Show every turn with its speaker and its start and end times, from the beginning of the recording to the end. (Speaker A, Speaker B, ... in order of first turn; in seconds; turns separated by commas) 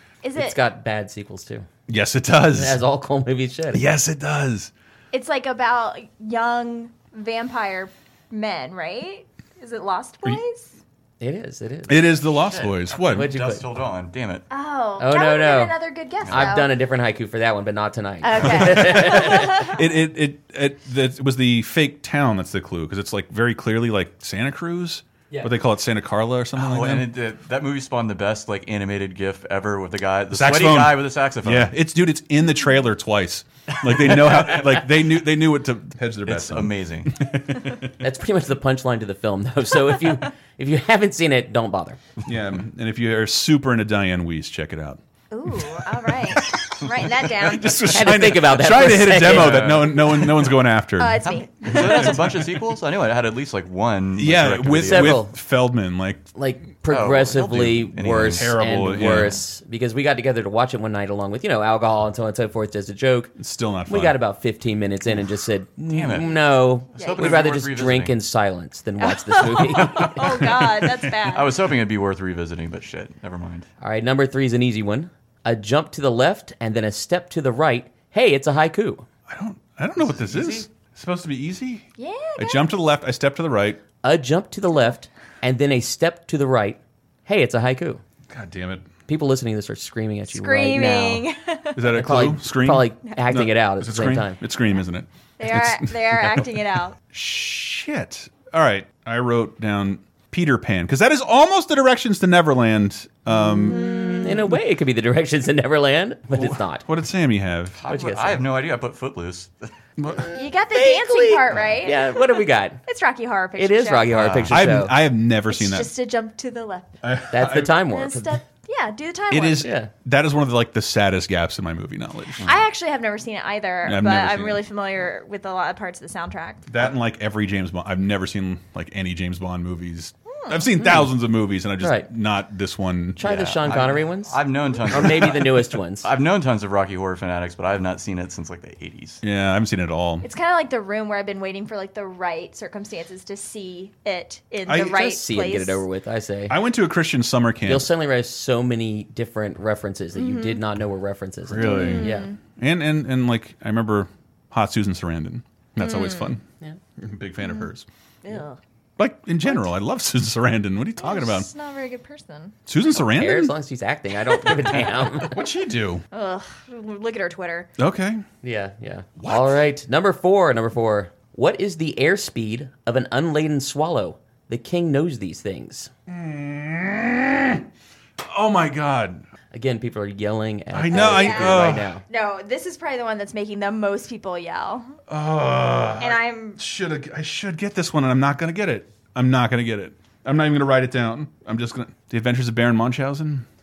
Speaker A: 0.2-0.6, Speaker B: 0.3-1.7, Speaker C: 1.9-2.8, Speaker B: 2.5-3.8, Speaker C: 3.7-4.7, Speaker A: 5.1-10.7, Speaker B: 11.2-12.1, Speaker C: 11.9-13.3, Speaker D: 12.3-14.4, Speaker B: 13.1-13.6, Speaker A: 14.5-16.7, Speaker B: 15.0-15.8, Speaker D: 16.2-16.6, Speaker B: 16.3-19.6, Speaker A: 18.2-19.9, Speaker C: 18.4-27.1, Speaker D: 26.5-31.7, Speaker C: 30.3-37.9, Speaker D: 33.9-34.7, Speaker D: 36.2-37.2, Speaker B: 38.0-42.0, Speaker C: 42.2-52.5, Speaker A: 45.3-48.1, Speaker B: 47.9-49.8, Speaker D: 49.1-50.5, Speaker A: 51.0-52.4, Speaker D: 51.2-55.2, Speaker C: 54.1-56.3, Speaker B: 54.8-55.3, Speaker B: 56.3-63.3, Speaker D: 56.9-59.4, Speaker C: 58.2-59.4, Speaker C: 63.4-64.2, Speaker B: 63.9-70.2, Speaker D: 65.9-68.1, Speaker A: 67.0-67.5, Speaker A: 69.0-71.5, Speaker C: 70.2-71.1, Speaker D: 71.3-73.7, Speaker B: 73.8-79.0, Speaker C: 79.3-81.8, Speaker B: 80.0-80.7, Speaker A: 82.0-82.6, Speaker C: 82.4-83.8, Speaker B: 84.0-88.0, Speaker C: 88.3-88.9, Speaker B: 89.1-91.3, Speaker A: 90.3-91.8, Speaker C: 91.7-96.5, Speaker B: 91.9-94.4, Speaker A: 95.4-97.0, Speaker C: 97.1-103.9, Speaker B: 103.3-106.8, Speaker A: 103.7-104.3, Speaker C: 106.3-107.8, Speaker D: 107.7-109.7, Speaker B: 107.8-108.4, Speaker C: 110.0-110.3, Speaker B: 110.3-112.8, Speaker A: 110.3-114.1, Speaker B: 113.6-115.0, Speaker D: 114.1-114.6, Speaker C: 114.5-115.9, Speaker A: 115.5-116.9, Speaker C: 117.0-117.8, Speaker B: 117.3-118.4, Speaker A: 117.9-119.7, Speaker C: 119.3-122.5, Speaker B: 119.6-119.9, Speaker A: 122.4-126.7, Speaker C: 123.8-124.6, Speaker C: 126.7-133.5, Speaker A: 130.3-130.7, Speaker B: 130.8-131.1, Speaker B: 131.8-132.1, Speaker B: 133.2-136.1, Speaker D: 133.2-139.2, Speaker C: 139.2-140.2, Speaker A: 140.2-145.8, Speaker C: 144.7-144.9, Speaker B: 144.7-146.6, Speaker C: 146.5-147.9, Speaker B: 147.7-152.3, Speaker A: 150.2-150.6, Speaker C: 151.5-156.4, Speaker A: 151.6-152.3, Speaker A: 155.8-156.3, Speaker C: 157.0-157.8, Speaker A: 157.4-157.7, Speaker A: 158.2-158.6, Speaker C: 159.0-161.5, Speaker A: 161.0-162.5, Speaker C: 162.7-163.6, Speaker B: 163.1-165.4, Speaker C: 165.2-166.0, Speaker A: 166.1-167.7, Speaker C: 167.8-168.2, Speaker B: 168.4-175.9, Speaker C: 169.2-169.6, Speaker C: 176.1-177.6, Speaker C: 178.2-179.3, Speaker B: 179.5-182.0, Speaker C: 180.7-181.9, Speaker A: 180.9-185.0, Speaker C: 185.1-193.4, Speaker A: 186.0-186.6